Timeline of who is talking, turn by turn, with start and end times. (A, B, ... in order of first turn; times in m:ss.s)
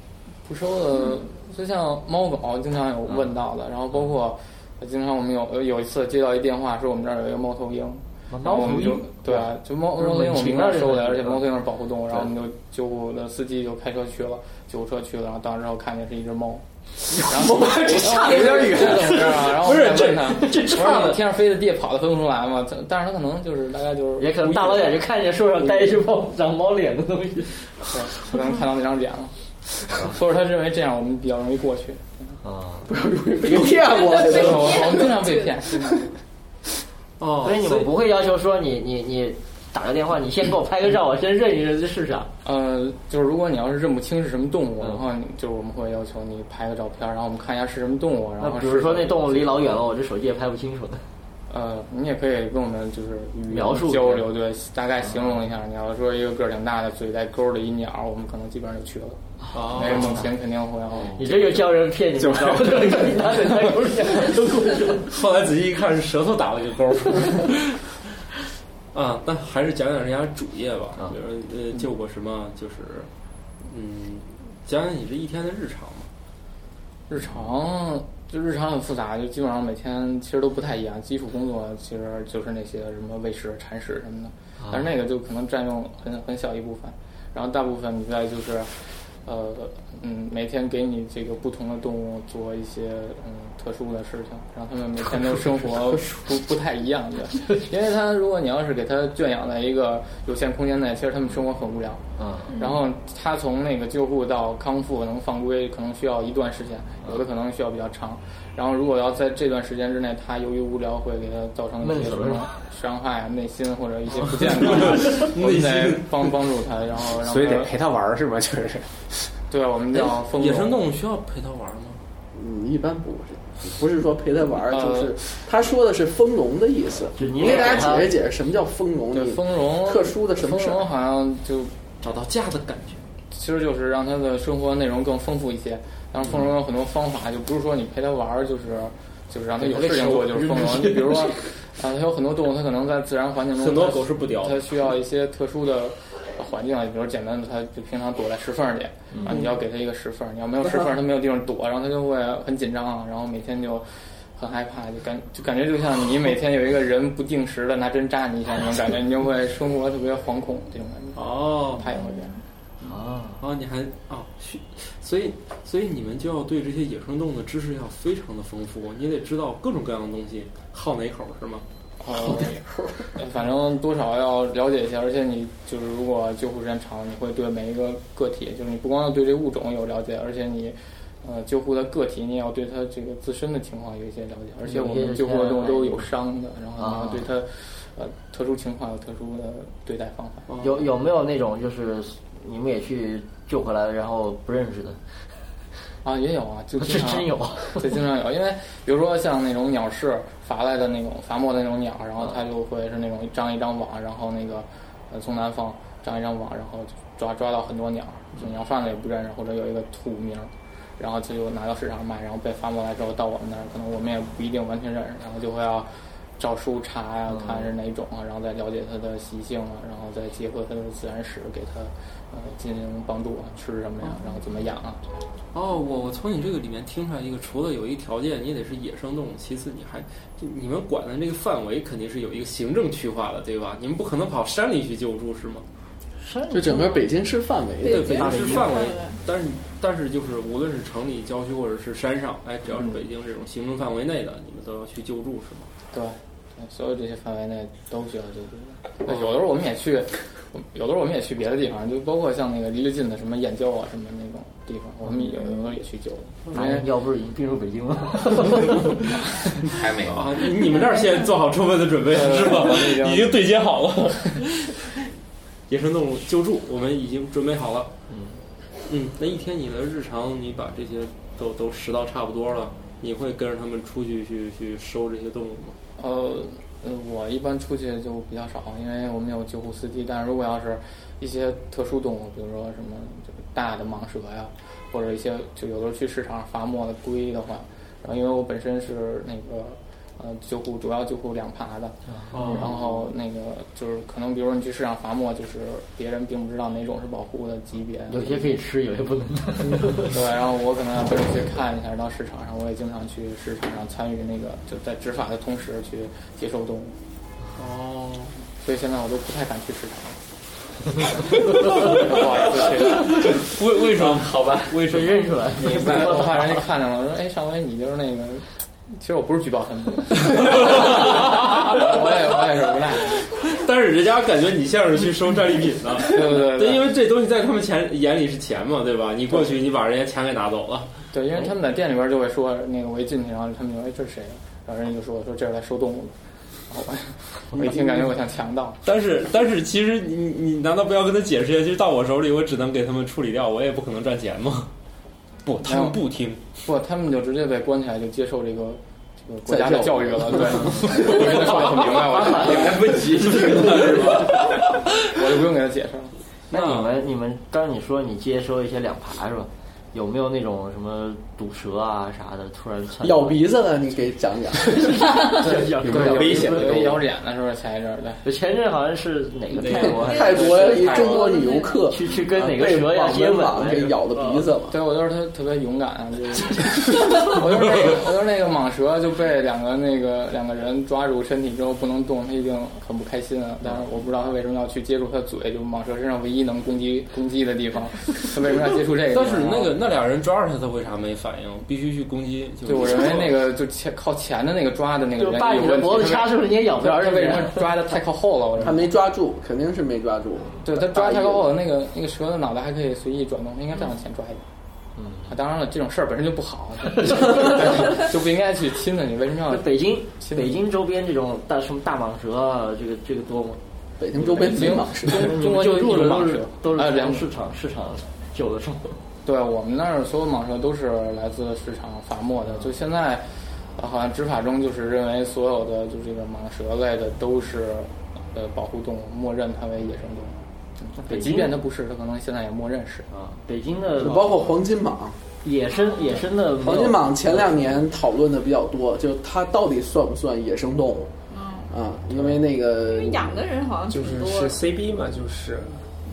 0:00.4-0:25.0 A
0:08.3-0:11.4 B
0:18.2-0:19.5 B
0:18.2-0:21.2 C
0:20.4-0:21.2 B
0:24.2-0:27.6 B
0:27.9-0:29.3 A
0:29.8-0:32.4 A
0:32.4-0:32.9 B
0:32.9-0:35.1 D
0:33.4-0:33.7 E
0:34.0-0:35.5 F
0:34.2-0:36.1 A
0:37.2-0:37.9 C
0:37.4-0:42.3 B
0:42.4-0:49.8 A
0:48.4-0:51.0 B
0:51.5-1:01.7 A
0:53.5-0:54.3 B
0:59.5-1:00.3 B
0:59.5-1:00.3 C
1:01.1-1:05.1 B
1:02.2-1:03.2 E
1:05.1-1:07.8 C
1:08.9-1:13.1 C
1:13.6-1:16.1 C
1:17.1-1:42.0 A
1:24.6-1:24.9 B
1:42.2-1:42.5 B
1:42.5-1:42.8 F
1:42.6-1:57.7 A
1:51.8-1:52.5 B
1:54.2-1:56.3 C
1:57.2-1:59.1 E
1:59.5-2:00.9 A
1:59.9-2:02.0 C
2:02.3-2:10.8 D
2:04.7-2:05.1 A
2:07.2-2:08.1 B
2:09.1-2:11.7 A
2:12.0-2:13.0 C
2:13.3-2:42.4 A
2:19.6-2:21.4 B
2:23.6-2:24.7 C
2:29.1-2:29.5 B
2:41.1-2:41.9 C
2:41.9-2:42.4 F
2:42.8-2:43.4 B
2:43.4-2:51.6 C
2:52.0-3:10.6 A
3:04.6-3:06.1 B
3:06.8-3:07.2 B
3:10.6-3:15.0 B
3:16.0-3:45.1 A
3:16.8-3:17.9 B
3:37.3-3:37.7 B
3:45.5-3:55.6 C
3:56.2-3:57.1 B
3:56.5-3:58.7 D
3:57.8-4:05.7 C
3:57.8-3:59.2 F
3:58.2-3:58.7 B
4:05.9-4:16.8 A
4:16.5-4:19.0 B
4:19.6-4:20.4 G
4:20.1-4:24.9 C
4:22.1-4:23.3 A
4:25.7-4:27.9 C
4:28.1-4:28.4 B
4:28.9-4:35.8 C
4:36.0-4:58.5 A
4:52.1-4:52.4 B
4:52.3-4:53.1 C
4:58.1-5:00.1 B
4:59.8-5:06.9 A
5:07.6-5:08.3 C
5:08.6-5:10.2 A
5:11.0-5:13.4 A
5:11.5-5:15.3 C
5:13.8-5:14.8 G
5:14.8-5:16.6 B
5:15.6-5:23.3 A
5:15.6-5:16.2 G
5:20.3-5:22.0 C
5:23.4-5:30.9 C
5:26.0-5:26.9 A
5:31.1-5:36.2 A
5:36.7-5:38.8 A
5:38.8-5:44.7 C
5:45.4-5:46.4 C
5:45.6-5:46.0 A
5:46.6-5:54.1 A
5:49.4-5:51.0 D
5:51.3-5:51.7 C
5:52.2-5:54.4 G
5:52.3-5:52.7 B
5:53.4-5:54.5 C
5:55.0-5:56.1 A
5:56.5-6:03.4 B
5:56.5-5:56.9 C
6:03.0-6:05.0 D
6:04.9-6:07.0 B
6:05.4-6:07.0 E
6:05.5-6:08.2 A
6:08.2-6:11.3 B
6:09.6-6:10.3 C
6:09.8-6:14.8 D
6:10.0-6:11.8 F
6:11.8-6:14.5 B
6:14.7-6:29.8 A
6:29.1-6:33.5 C
6:32.6-6:38.8 A
6:35.2-6:37.7 B
6:38.6-6:41.5 D
6:40.6-6:44.4 A
6:45.0-6:45.4 B
6:45.3-6:50.6 A
6:47.0-6:47.9 B
6:49.5-6:53.6 B
6:54.0-6:55.4 D
6:54.2-6:59.0 B
6:54.3-6:57.3 A
6:59.2-7:13.1 A
7:11.0-7:11.6 B
7:13.1-7:14.5 B
7:14.0-7:15.2 D
7:15.4-7:17.5 B
7:15.8-7:16.2 F
7:16.6-7:21.1 D
7:21.3-7:21.7 F
7:21.7-7:23.4 D
7:22.8-7:24.6 F
7:23.9-7:25.8 E